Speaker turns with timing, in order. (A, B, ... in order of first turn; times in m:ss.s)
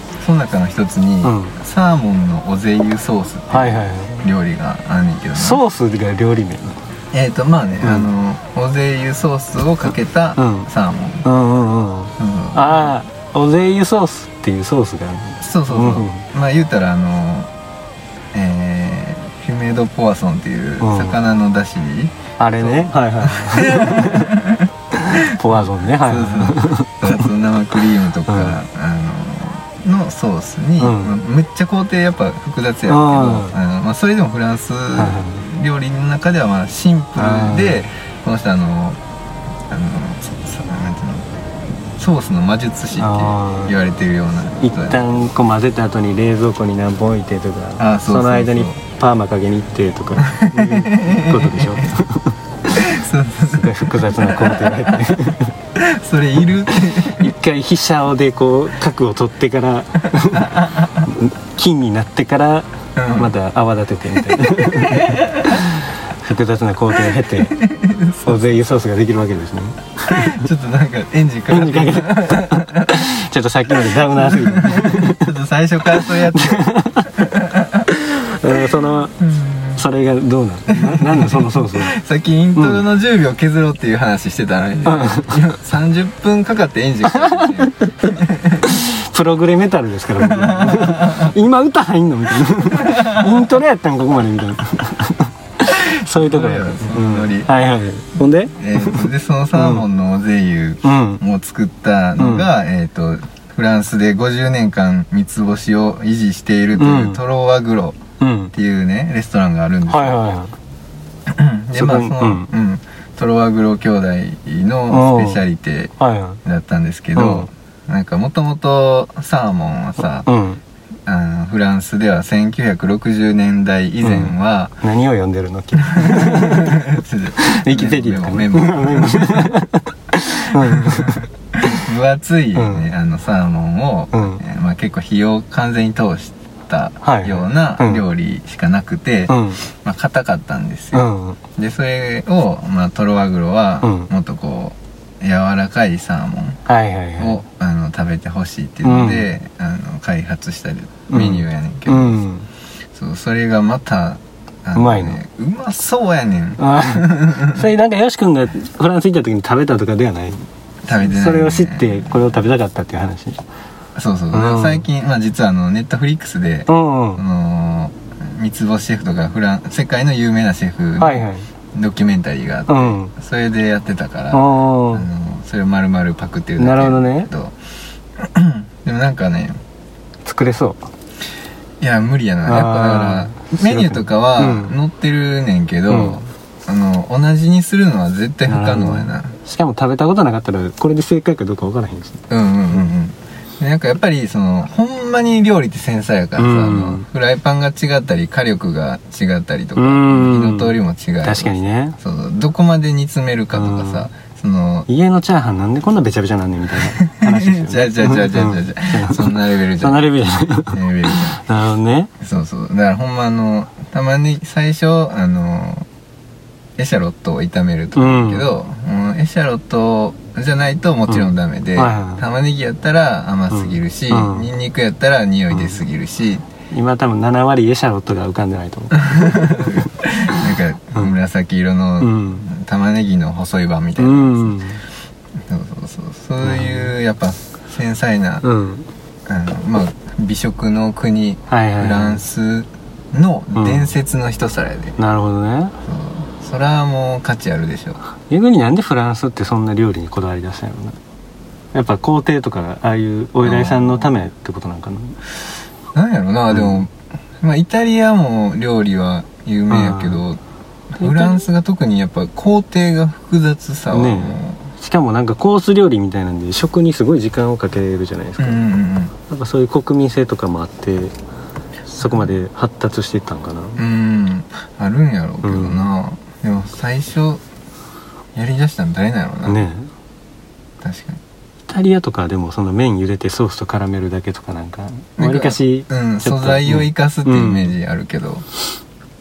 0:00.2-0:05.6 A
0:01.2-0:01.6 B
0:03.5-0:04.3 B
0:05.4-0:06.8 B
0:07.1-0:11.2 A
0:07.8-0:08.1 B
0:10.4-0:10.7 B
0:11.2-0:16.2 B
0:12.2-0:12.9 A
0:15.4-0:17.5 A
0:18.3-0:39.0 A
0:20.8-0:21.2 B
0:22.4-0:24.3 B
0:24.9-0:27.3 B
0:28.3-0:28.6 B
0:30.8-0:31.2 B
0:32.9-0:33.6 B
0:35.0-0:35.4 B
0:37.2-0:37.8 B
0:39.7-0:41.3 A
0:42.0-0:45.3 A
0:43.0-0:43.8 B
0:44.6-0:52.4 B
0:47.8-0:48.8 A
0:50.2-0:51.9 A
0:52.7-0:55.1 A
0:53.5-0:55.5 B
0:55.8-0:57.3 A
0:57.0-1:07.6 B
1:00.2-1:01.0 A
1:03.0-1:03.3 A
1:04.8-1:05.6 A
1:07.4-1:08.4 A
1:08.2-1:10.4 B
1:10.1-1:13.1 A
1:11.5-1:15.3 B
1:13.8-1:17.9 A
1:16.0-1:17.1 B
1:17.9-1:19.2 B
1:19.2-1:19.8 A
1:19.8-1:22.0 B
1:20.7-1:28.8 A
1:22.6-1:22.8 B
1:24.8-1:25.5 B
1:27.1-1:28.1 B
1:28.6-1:39.8 B
1:30.2-1:31.3 A
1:32.8-1:33.4 A
1:35.8-1:37.5 A
1:38.6-1:48.0 A
1:40.8-1:41.2 B
1:42.2-1:42.5 B
1:46.8-1:47.2 B
1:48.2-1:48.5 B
1:48.5-1:50.2 A
1:49.9-1:50.5 B
1:51.3-1:55.9 A
1:51.8-1:52.5 B
1:54.9-1:55.4 B
1:56.0-1:56.4 B
1:56.4-2:00.3 A
1:57.2-1:57.5 B
2:00.3-2:00.6 B
2:01.1-2:04.8 A
2:04.0-2:06.8 B
2:05.8-2:09.5 A
2:07.4-2:11.8 B
2:10.4-2:26.6 A
2:12.6-2:12.9 B
2:14.1-2:14.4 B
2:17.0-2:18.0 B
2:19.3-2:19.6 B
2:20.9-2:21.4 B
2:23.8-2:24.1 B
2:26.7-2:27.4 B
2:27.2-2:32.2 A
2:28.8-2:29.3 B
2:31.1-2:32.5 B
2:32.9-2:37.6 A
2:34.8-2:35.2 B
2:36.6-2:40.4 B
2:40.8-2:42.4 A
2:41.0-2:43.4 B
2:44.0-2:57.6 A
2:44.3-2:44.8 B
2:46.7-2:47.2 B
2:51.0-2:51.5 B
2:52.7-2:53.1 B
2:54.3-2:55.1 B
2:56.6-2:57.3 B
2:58.2-2:59.6 A
3:00.2-3:00.8 B
3:01.8-3:09.3 A
3:02.5-3:04.8 B
3:05.9-3:06.2 B
3:08.5-3:12.2 B
3:12.3-3:24.9 A
3:16.4-3:17.0 B
3:19.8-3:22.0 B
3:23.5-3:24.1 B
3:24.9-3:32.1 B
3:27.0-3:30.1 A
3:30.7-3:31.4 A
3:32.2-3:35.9 A
3:36.8-3:46.4 A
3:38.0-3:38.5 B
3:41.1-3:42.2 B
3:43.5-3:44.5 B
3:46.7-3:50.4 B
3:49.0-3:54.6 A
3:52.0-3:52.5 B
3:54.0-3:54.8 B
3:55.4-3:58.4 A
3:56.4-3:56.9 B
3:58.4-3:58.9 B
3:59.3-4:05.0 A
4:01.5-4:02.2 B
4:03.6-4:03.9 B
4:05.0-4:05.8 B
4:05.8-4:08.0 A
4:08.3-4:11.0 B
4:11.7-4:15.2 B
4:13.4-4:14.1 A
4:15.9-4:20.4 A
4:16.6-4:16.8 B
4:19.7-4:20.2 B
4:20.9-4:24.6 A
4:21.0-4:21.4 B
4:23.9-4:28.6 B
4:28.4-4:29.1 A
4:29.3-4:31.1 B
4:31.9-4:33.8 B
4:33.8-4:37.4 A
4:35.4-4:35.8 B
4:38.4-4:39.6 A
4:39.5-4:39.9 B
4:40.8-4:41.2 A
4:41.7-4:47.7 B
4:45.2-4:48.4 A